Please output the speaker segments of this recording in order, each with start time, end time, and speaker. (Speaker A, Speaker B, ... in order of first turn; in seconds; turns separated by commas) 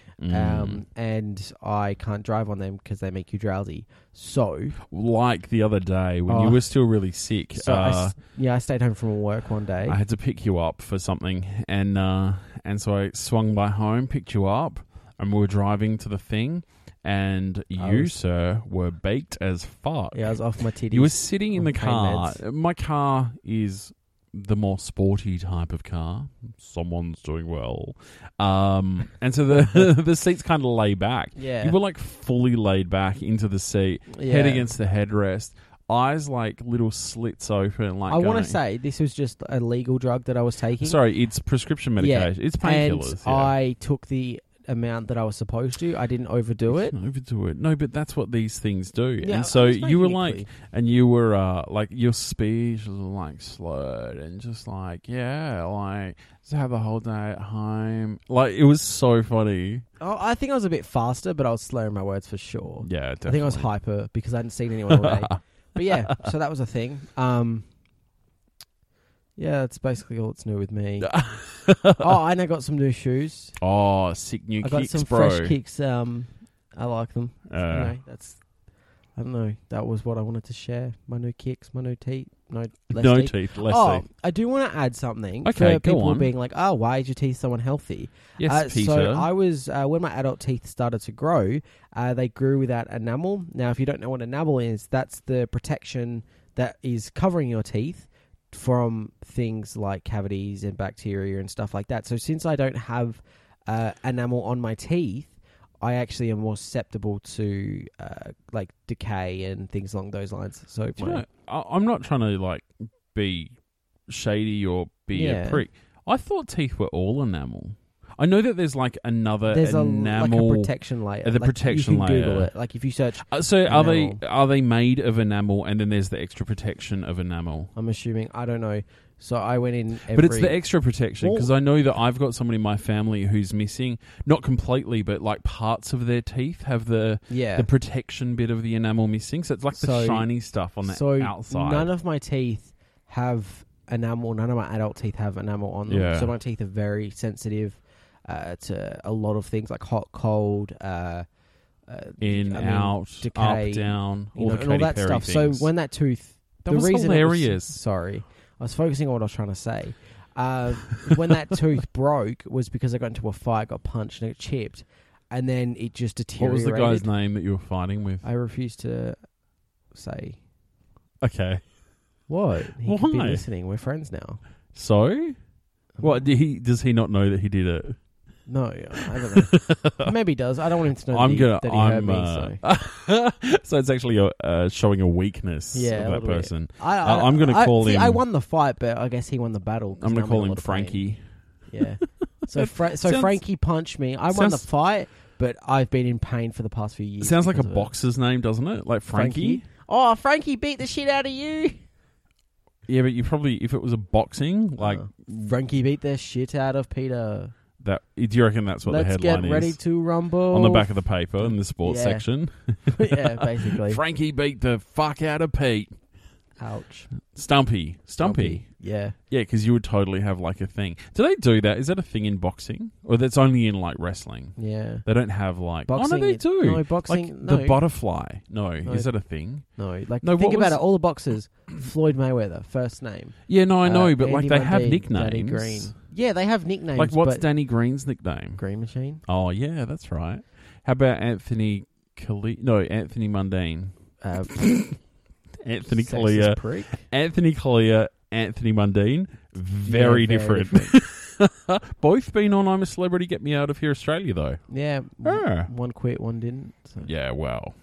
Speaker A: 0.2-0.8, Speaker B: 0.3-4.8, Speaker A: 4.9-8.2, Speaker B: 6.3-6.7, Speaker B: 7.5-10.0, Speaker A: 9.9-20.3, Speaker B: 17.8-18.2, Speaker B: 20.1-22.4, Speaker A: 20.9-38.6, Speaker B: 31.4-31.8, Speaker B: 34.1-34.7, Speaker B: 38.1-41.0, Speaker A: 40.8-43.5, Speaker B: 42.0-47.0, Speaker A: 46.7-59.9, Speaker B: 49.2-50.5, Speaker B: 60.0-67.7, Speaker A: 62.8-63.7, Speaker A: 64.9-66.0, Speaker B: 69.4-71.2, Speaker A: 71.0-72.1, Speaker B: 72.0-73.6, Speaker A: 73.6-75.5, Speaker B: 74.6-78.4, Speaker A: 77.5-77.9, Speaker B: 79.2-111.2, Speaker A: 82.9-84.0, Speaker A: 85.4-86.3, Speaker A: 88.4-89.3, Speaker A: 111.0-113.6, Speaker A: 114.1-120.7, Speaker B: 115.1-115.7, Speaker B: 119.5-124.2, Speaker A: 121.2-122.5, Speaker A: 123.2-127.7, Speaker B: 127.8-130.6, Speaker A: 130.1-141.9, Speaker B: 131.2-131.5, Speaker B: 137.3-137.7, Speaker B: 139.8-140.3, Speaker B: 140.8-151.3, Speaker A: 145.9-146.3, Speaker B: 151.9-167.1, Speaker A: 152.2-155.7, Speaker A: 156.7-157.8, Speaker A: 166.4-168.2, Speaker B: 168.2-169.2, Speaker B: 169.9-170.4, Speaker A: 171.2-171.6, Speaker B: 172.3-174.4, Speaker A: 172.8-173.4, Speaker A: 174.7-175.4, Speaker B: 176.0-176.2, Speaker A: 176.0-178.0, Speaker B: 178.5-182.6, Speaker A: 179.2-180.1, Speaker A: 181.1-188.2, Speaker B: 185.7-191.0, Speaker A: 190.0-191.2, Speaker B: 191.7-197.9, Speaker A: 192.5-193.4, Speaker A: 194.3-194.7, Speaker A: 197.2-199.7, Speaker B: 199.1-201.8, Speaker A: 202.9-205.2, Speaker B: 204.8-207.6, Speaker A: 207.8-209.8, Speaker B: 208.9-212.2, Speaker A: 210.5-215.9, Speaker B: 212.9-214.0, Speaker B: 216.6-217.1, Speaker A: 217.2-218.7, Speaker B: 218.2-219.2, Speaker A: 219.3-229.7, Speaker B: 224.6-225.1, Speaker B: 225.9-227.8, Speaker B: 228.8-229.1, Speaker B: 229.8-237.5, Speaker A: 230.2-230.8, Speaker A: 233.5-235.9, Speaker A: 237.0-238.6, Speaker B: 238.6-239.2, Speaker A: 239.3-243.9, Speaker B: 244.2-244.7, Speaker A: 244.5-245.0, Speaker A: 245.6-254.6, Speaker B: 245.9-247.1, Speaker B: 249.8-250.9, Speaker B: 254.7-257.1, Speaker A: 255.2-255.7, Speaker A: 257.0-257.7